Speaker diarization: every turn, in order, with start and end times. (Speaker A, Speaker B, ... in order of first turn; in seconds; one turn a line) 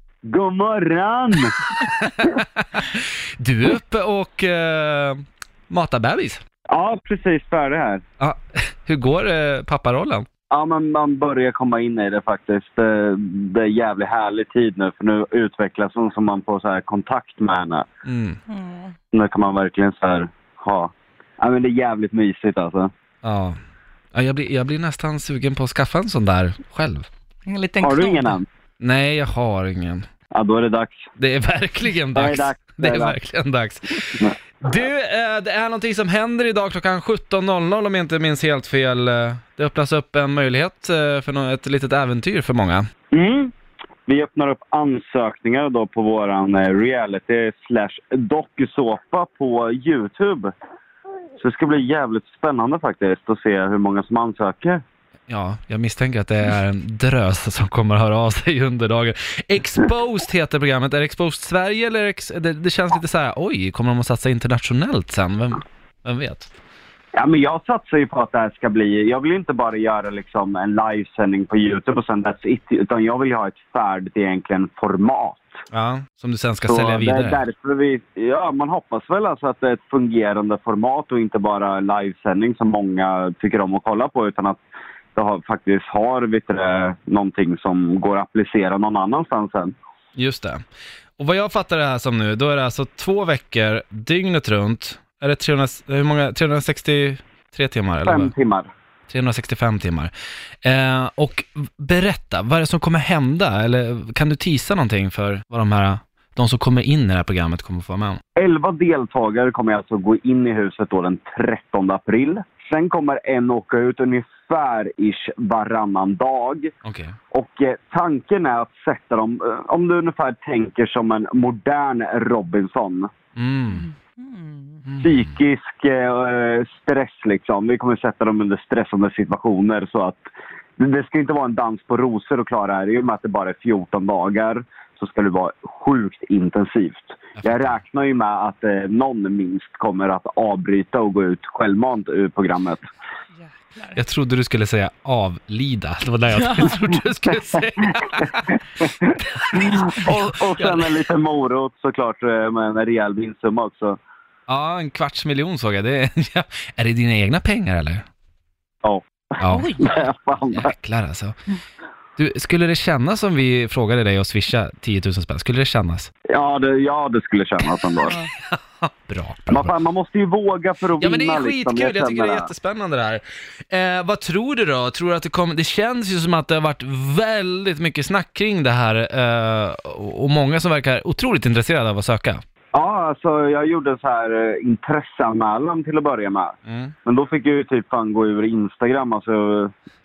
Speaker A: 0.2-1.6
Speaker B: 1.8-6.4
Speaker A: 6.7-8.0
Speaker B: 8.2-10.2
Speaker A: 10.5-17.8
Speaker B: 18.1-18.4
Speaker C: 18.5-18.9
Speaker A: 19.1-22.9
Speaker B: 23.2-23.6
Speaker B: 24.1-27.1
Speaker C: 27.5-28.4
Speaker A: 27.8-28.4
Speaker B: 28.8-30.1
Speaker A: 30.3-31.1
Speaker B: 31.2-42.9
Speaker A: 32.1-33.2
Speaker A: 43.1-43.5
Speaker A: 44.0-50.5
Speaker A: 51.4-54.8
Speaker B: 55.3-66.5
Speaker A: 67.1-75.5
Speaker B: 75.7-77.4
Speaker A: 76.7-84.6
Speaker A: 85.1-89.7
Speaker B: 90.2-90.6
Speaker B: 91.2-98.3
Speaker A: 98.0-98.7
Speaker B: 99.1-100.1
Speaker B: 100.6-108.2
Speaker A: 108.3-116.7
Speaker B: 116.8-117.2
Speaker A: 117.3-123.1
Speaker B: 123.3-123.9
Speaker C: 124.3-124.6
Speaker B: 124.8-125.3
Speaker A: 125.0-130.2
Speaker A: 130.8-142.8
Speaker B: 137.4-137.8
Speaker C: 143.4-144.0
Speaker B: 143.8-151.0
Speaker C: 146.6-146.9
Speaker A: 148.8-154.0
Speaker B: 154.5-158.1
Speaker B: 159.4-159.9
Speaker C: 159.5-159.9
Speaker A: 159.7-160.7
Speaker B: 160.5-161.3
Speaker B: 162.2-166.1
Speaker A: 166.3-168.2
Speaker B: 168.0-169.7
Speaker A: 169.5-172.5
Speaker B: 171.0-182.4
Speaker A: 182.7-186.5
Speaker B: 186.7-186.9
Speaker A: 187.0-189.7